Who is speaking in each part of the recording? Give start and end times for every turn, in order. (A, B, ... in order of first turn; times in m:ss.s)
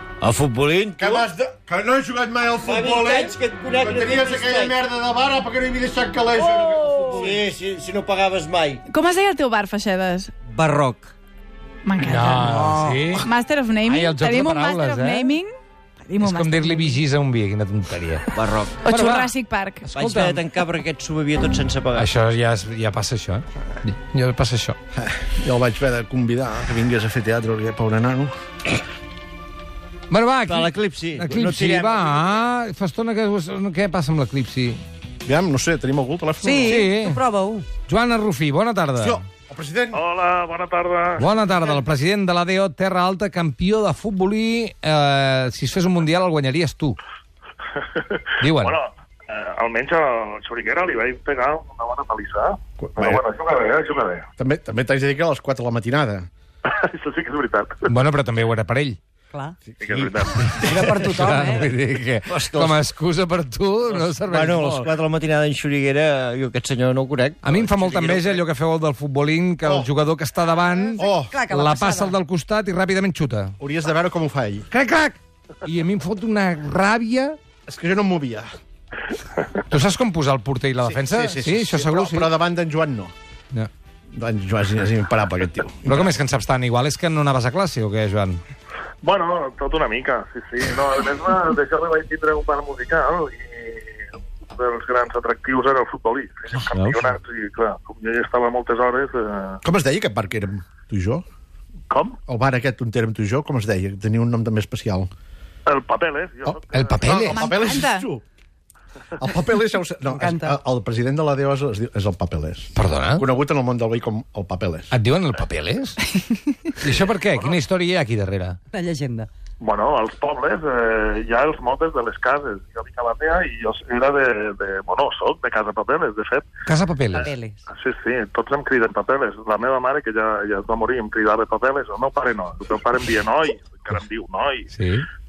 0:00.2-0:01.3 A
0:01.0-0:07.4 B
0:02.6-0:04.8 A
0:06.4-0:08.8 A
0:08.9-0:10.3 C
0:10.5-0:11.1 A
0:11.8-0:12.6 C
0:12.0-0:13.3 D
0:12.5-0:13.1 E
0:13.1-0:15.5 C
0:13.8-0:15.4 D
0:16.0-0:17.0 C
0:16.2-0:18.3 D
0:18.3-0:18.9 A
0:18.8-0:19.9 C
0:18.8-0:20.5 D
0:19.9-0:22.1 A
0:21.9-0:24.8 D
0:24.9-0:28.7 B
0:30.1-0:34.8 D
0:30.4-0:32.4 A
0:35.2-0:36.8 B
0:36.4-0:37.7 E
0:36.6-0:37.2 D
0:37.9-0:39.2 D
0:39.0-0:40.0 B
0:39.9-0:41.3 F
0:41.2-0:47.0 D
0:47.8-0:54.3 F
0:48.4-0:48.8 D
0:52.8-0:53.2 B
0:54.4-0:56.3 B
0:56.6-0:57.9 F
0:57.9-0:59.0 D
0:59.3-0:59.6 E
0:59.7-1:00.0 B
0:59.8-1:00.7 F
1:00.3-1:04.9 D
1:00.8-1:01.7 E
1:02.3-1:02.9 A
1:04.0-1:08.4 A
1:07.4-1:13.5 D
1:09.6-1:09.9 B
1:10.8-1:12.2 E
1:11.0-1:11.3 B
1:13.6-1:14.6 B
1:14.7-1:17.4 D
1:17.7-1:18.5 B
1:19.7-1:22.3 D
1:20.8-1:23.1 B
1:24.1-1:26.0 B
1:25.8-1:28.4 D
1:29.0-1:39.6 F
1:36.7-1:37.2 A
1:39.6-1:41.2 B
1:41.9-1:42.2 F
1:42.3-1:45.1 B
1:45.6-1:47.2 F
1:46.4-1:48.2 B
1:46.7-1:47.5 D
1:47.3-1:48.1 C
1:49.1-1:54.9 B
1:50.1-1:50.6 E
1:52.8-1:53.2 D
1:54.9-1:56.1 D
1:56.8-1:58.6 D
1:58.7-1:59.3 E
1:59.6-2:06.5 F
2:06.6-2:07.3 D
2:07.1-2:14.7 F
2:07.1-2:07.6 E
2:14.7-2:15.1 D